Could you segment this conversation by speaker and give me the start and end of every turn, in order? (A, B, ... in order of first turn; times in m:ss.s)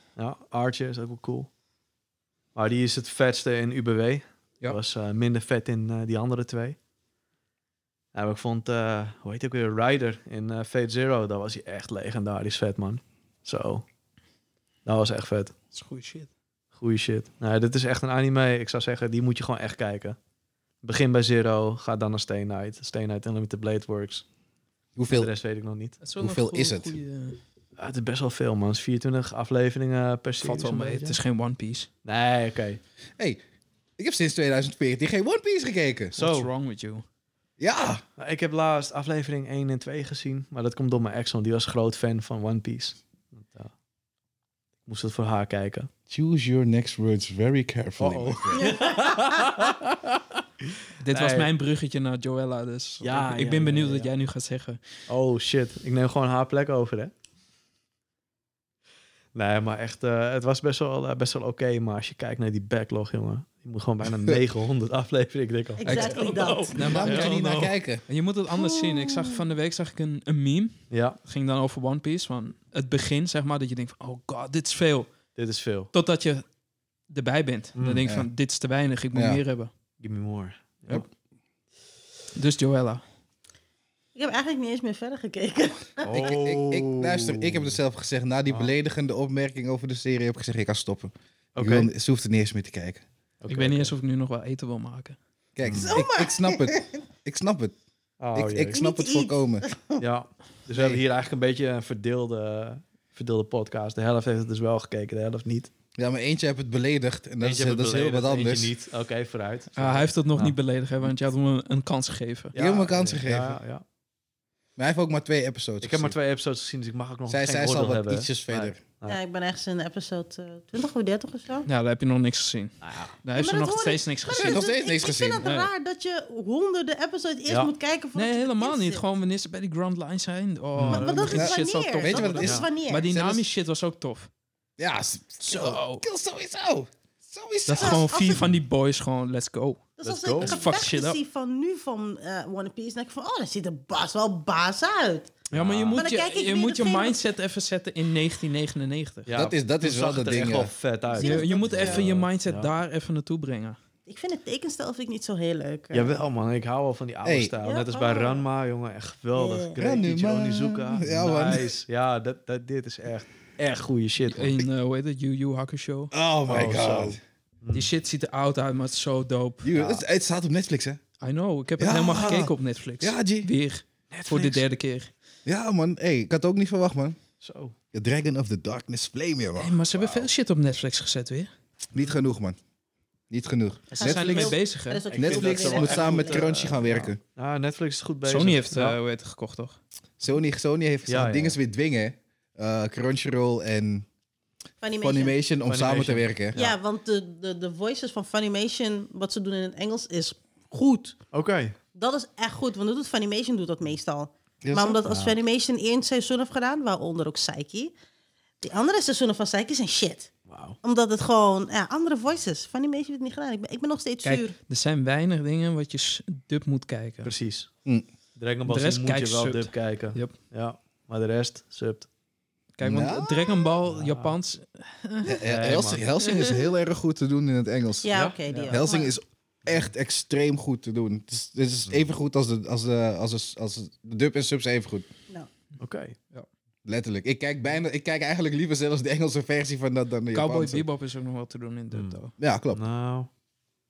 0:00.2-0:01.5 A
0:02.6-0:06.8 A
0:08.1-0:13.8 A
0:14.9-0:15.6 A
0:15.7-0:16.3 B
0:16.7-0:20.2 A
0:20.8-0:24.2 A
0:25.0-0:25.3 C
0:25.1-0:26.0 A
0:26.0-0:27.4 B
0:26.2-0:27.0 C
0:27.8-0:31.2 A
0:30.4-0:31.9 B
0:32.0-0:32.8 A
0:34.0-0:36.2 C
0:36.2-0:37.0 B
0:36.2-0:36.5 A
0:37.6-0:38.0 C
0:38.2-0:43.7 A
0:44.9-0:45.9 A
0:46.1-0:48.8 C
0:48.0-0:51.5 A
0:48.6-0:49.4 D
0:51.0-0:54.8 B
0:53.0-0:54.1 A
0:55.1-0:57.1 A
0:59.3-1:07.7 A
1:05.8-1:06.8 D
1:05.9-1:08.0 C
1:05.9-1:15.1 B
1:08.5-1:09.4 D
1:10.9-1:11.2 A
1:15.4-1:15.9 A
1:15.9-1:16.4 B
1:17.1-1:19.7 B
1:17.8-1:18.0 A
1:18.0-1:18.3 C
1:19.1-1:19.4 C
1:20.0-1:21.0 A
1:22.4-1:23.0 B
1:24.2-1:26.2 D
1:26.0-1:27.8 A
1:26.1-1:33.0 C
1:28.5-1:28.7 A
1:31.6-1:31.9 A
1:33.4-1:33.9 A
1:33.5-1:35.2 B
1:35.6-1:37.8 C
1:35.6-1:36.0 A
1:35.8-1:36.9 D
1:38.2-1:38.8 A
1:38.3-1:39.6 C
1:38.7-1:40.0 D
1:40.0-1:45.7 A
1:40.7-1:41.0 C
1:46.0-1:48.7 C
1:47.4-1:50.6 A
1:49.8-1:52.6 B
1:52.5-1:53.8 A
1:52.6-1:53.6 C
1:54.8-1:56.2 C
1:55.8-1:59.2 A
1:57.3-1:58.8 C
1:59.0-2:01.7 D
2:01.7-2:04.6 B
2:02.8-2:03.1 A
2:03.3-2:09.0 D
2:04.4-2:05.5 C
2:05.4-2:05.7 B
2:07.5-2:07.7 A
2:08.2-2:14.3 B
2:10.8-2:11.2 A
2:10.9-2:13.1 D
2:11.3-2:12.5 C
2:12.4-2:12.6 A
2:13.1-2:13.4 C
2:14.8-2:18.3 C
2:15.4-2:16.0 B
2:17.7-2:21.2 B
2:17.8-2:18.4 D
2:20.0-2:25.3 D
2:20.0-2:20.6 A
2:25.5-2:26.0 A
2:25.5-2:29.3 B
2:26.0-2:27.2 D
2:29.3-2:32.7 A
2:29.3-2:30.7 C
2:31.1-2:32.0 D
2:31.2-2:33.8 B
2:34.1-2:36.2 D
2:35.9-2:44.6 A
2:37.2-2:37.5 C
2:37.6-2:38.4 D
2:39.3-2:39.8 D
2:39.8-2:41.8 C
2:44.2-2:46.1 B
2:46.1-2:47.2 C
2:46.5-2:47.9 A
2:47.7-2:49.8 B
2:49.6-2:51.0 C
2:49.7-2:50.0 A
2:51.2-2:55.1 B
2:51.8-2:53.5 C
2:54.1-2:54.7 A
2:55.5-2:57.2 C
2:57.4-2:57.8 A
2:57.9-3:00.3 C
2:59.6-3:01.5 B
3:01.9-3:02.6 C
3:03.3-3:04.6 C
3:03.9-3:06.5 D
3:04.0-3:05.1 B
3:05.1-3:09.0 A
3:05.1-3:07.2 C
3:08.2-3:09.8 B
3:10.2-3:14.1 C
3:11.1-3:11.6 A
3:14.8-3:15.4 D
3:15.0-3:16.6 C
3:15.7-3:16.8 A
3:16.5-3:21.2 D
3:21.3-3:21.8 A
3:21.9-3:27.9 D
3:24.6-3:25.0 C
3:25.1-3:25.4 A
3:28.6-3:30.3 D
3:30.5-3:30.8 A
3:30.8-3:34.6 D
3:34.2-3:37.3 B
3:37.2-3:37.7 A
3:38.4-3:42.1 A
3:38.7-3:40.4 B
3:42.8-3:45.4 B
3:42.8-3:43.7 C
3:43.9-3:44.3 A
3:45.2-3:55.1 C
3:45.4-3:46.0 A
3:46.2-3:46.6 B
3:48.0-3:49.1 D
3:48.5-3:48.8 B
3:55.8-3:56.2 A
3:56.8-4:00.8 C
4:00.3-4:02.3 B
4:01.9-4:02.2 A
4:02.4-4:02.8 C
4:02.7-4:03.3 A